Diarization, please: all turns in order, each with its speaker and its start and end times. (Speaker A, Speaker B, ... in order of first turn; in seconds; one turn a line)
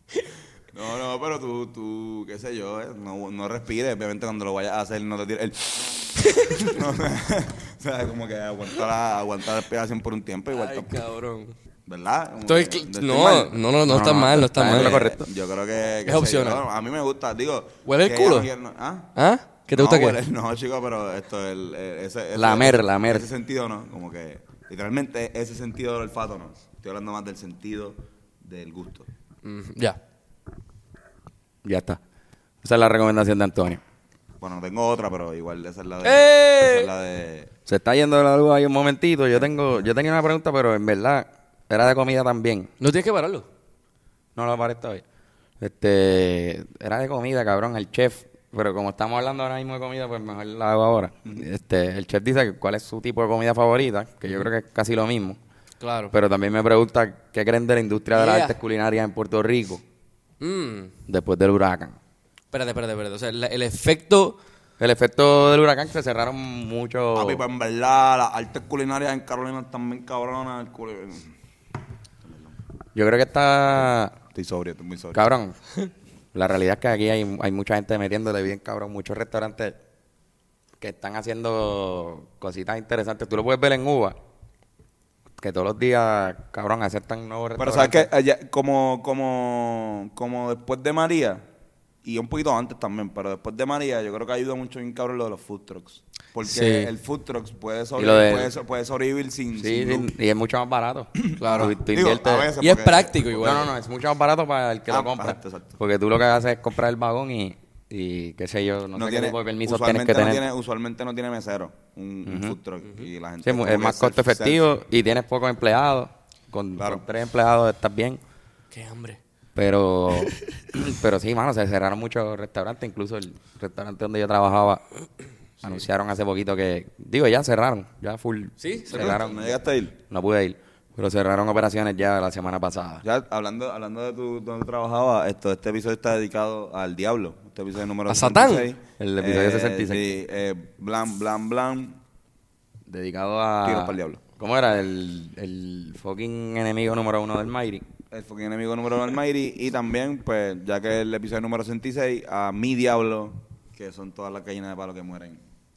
Speaker A: 0.7-10.9
Speaker B: 6.2-6.7
Speaker B: 10.5-11.5
Speaker A: 11.9-19.1
Speaker B: 12.4-15.2
Speaker C: 13.9-15.2
Speaker B: 16.1-16.6
Speaker B: 17.9-18.5
Speaker B: 19.1-20.2
Speaker A: 19.7-29.1
Speaker C: 22.3-23.3
Speaker B: 29.4-30.0
Speaker C: 31.6-32.0
Speaker C: 32.6-33.8
Speaker A: 34.4-37.5
Speaker B: 36.0-36.9
Speaker C: 37.6-42.7
Speaker B: 42.8-43.4
Speaker C: 44.4-45.0
Speaker C: 45.6-55.4
Speaker B: 55.8-56.1
Speaker C: 56.1-59.8
Speaker B: 58.1-58.5
Speaker B: 60.4-60.9
Speaker C: 61.1-62.0
Speaker B: 62.5-64.4
Speaker C: 64.8-67.4
Speaker A: 67.1-71.3
Speaker A: 72.2-72.5
Speaker C: 72.9-74.2
Speaker A: 74.3-75.3
Speaker C: 75.1-75.5
Speaker C: 76.3-79.8
Speaker C: 80.8-84.2
Speaker C: 85.4-88.1
Speaker A: 87.6-91.4
Speaker A: 92.0-100.1
Speaker B: 96.4-96.9
Speaker C: 98.0-98.5
Speaker C: 99.5-102.5
Speaker A: 101.1-103.6
Speaker B: 101.4-101.7
Speaker B: 102.6-103.7
Speaker C: 103.4-110.4
Speaker A: 104.9-105.8
Speaker A: 108.9-114.7
Speaker C: 112.2-112.6
Speaker C: 113.4-118.2
Speaker A: 116.8-117.0
Speaker B: 118.7-119.2
Speaker C: 119.5-124.8
Speaker C: 125.6-129.5
Speaker B: 128.6-129.4
Speaker A: 128.9-129.9
Speaker C: 130.1-133.0
Speaker A: 133.0-142.0
Speaker B: 138.1-138.7
Speaker C: 139.0-140.0
Speaker C: 142.9-147.8
Speaker A: 143.6-144.2
Speaker A: 148.1-155.4